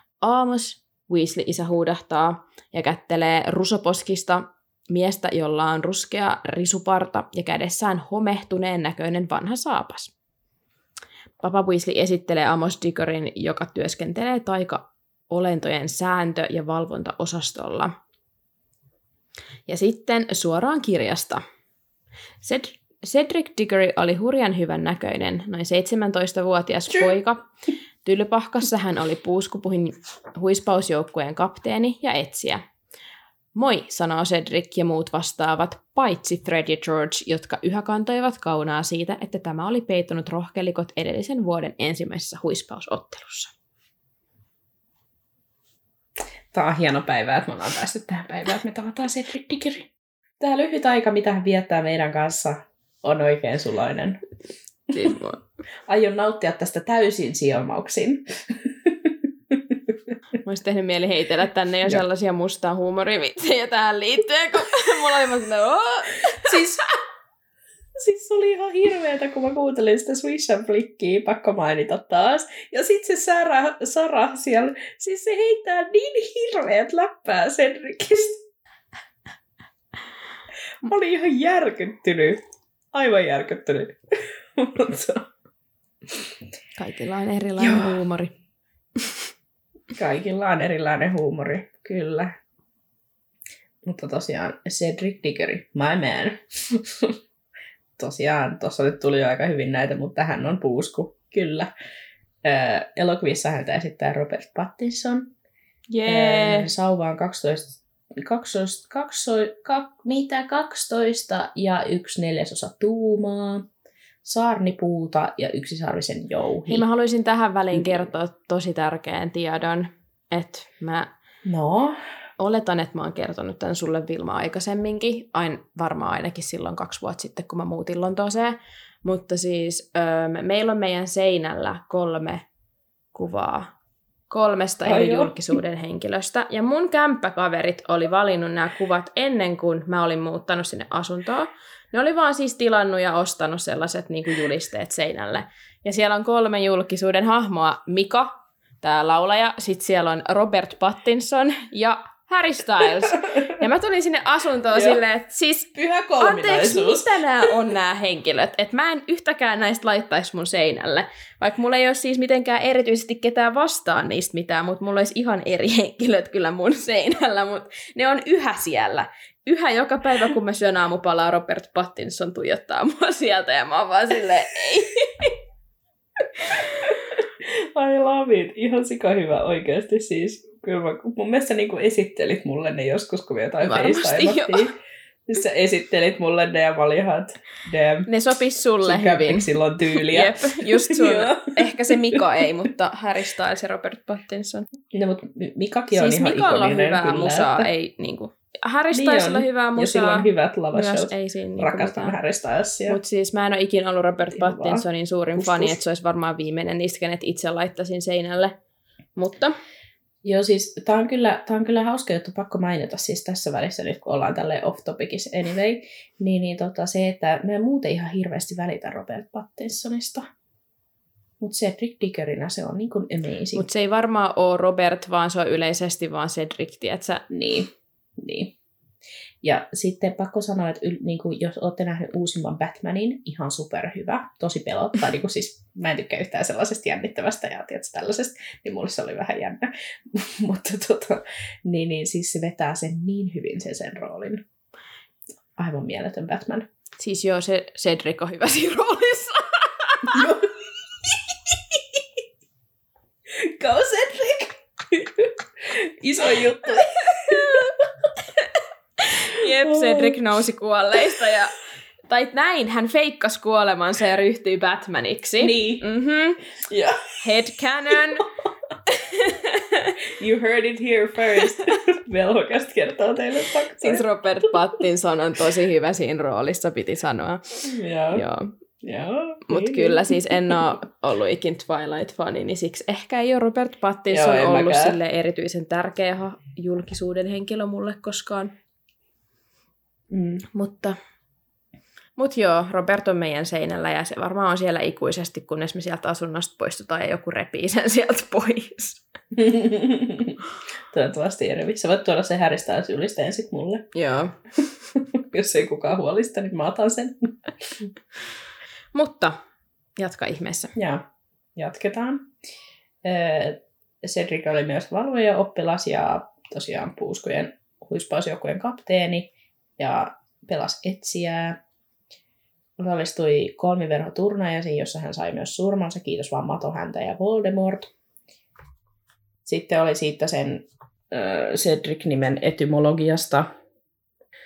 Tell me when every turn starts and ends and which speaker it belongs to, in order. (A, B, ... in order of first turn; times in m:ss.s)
0:00.2-0:10.1 A
0:11.4-0:17.9 A
0:19.7-0:21.4 A
0:22.4-0:27.4 A
0:28.0-0:32.6 A
0:33.5-0:43.5 A
0:46.5-0:54.2 B
0:54.9-0:55.4 A
0:55.9-0:59.5 B
1:00.4-1:06.6 A
1:06.4-1:07.0 B
1:08.0-1:18.4 B
1:20.8-1:22.4 B
1:22.9-1:25.3 B
1:26.8-1:28.3 A
1:27.6-1:28.0 B
1:29.9-1:32.3 B
1:33.8-1:37.2 B
1:38.0-1:41.7 B
1:42.4-1:45.3 B
1:45.9-1:46.7 A
1:46.0-1:53.7 B
1:54.2-1:56.8 B
1:56.7-2:01.1 A
2:01.4-2:02.0 B
2:02.4-2:12.4 A
2:13.1-2:13.7 A
2:14.3-2:55.4 A
2:14.8-2:15.5 B
2:34.7-2:35.0 B
2:35.7-2:37.2 B
2:56.4-2:56.9 A
2:57.4-3:04.7 B
3:03.6-3:04.7 A
3:05.3-3:08.1 B
3:08.1-3:14.6 A
3:08.8-3:12.2 B
3:14.9-3:17.6 B
3:15.9-3:22.2 A
3:18.9-3:23.0 B
3:22.9-3:28.5 A
3:24.3-3:24.8 B
3:25.4-3:25.8 B
3:29.2-3:29.5 A
3:30.2-3:40.3 B
3:41.4-3:43.6 B
3:43.5-3:47.2 A
3:47.3-3:48.6 B
3:49.4-4:04.4 B
4:05.6-4:06.6 B
4:07.0-4:10.3 A
4:10.1-4:10.6 B
4:13.3-4:17.8 B
4:17.3-4:17.6 A
4:19.0-4:21.5 A
4:19.6-4:20.2 B
4:22.1-4:26.4 A
4:25.4-4:25.8 B
4:26.6-4:27.3 B
4:27.2-4:28.2 A
4:28.9-4:29.9 A
4:30.2-4:34.5 B
4:33.8-4:37.6 A
4:37.6-4:38.2 B
4:38.1-4:38.5 A
4:38.8-4:40.6 B
4:39.5-4:48.5 A
4:44.1-4:45.0 B
4:50.1-4:50.4 B
4:50.5-4:51.0 A
4:52.2-4:59.0 A
4:59.4-5:00.4 B
5:00.9-5:03.9 B
5:03.9-5:04.4 A
5:05.1-5:07.3 B
5:08.9-5:09.4 A
5:10.0-5:10.7 A
5:10.7-5:11.0 B
5:11.6-5:12.3 B
5:13.0-5:21.6 B
5:22.8-5:27.9 B
5:29.4-5:33.5 B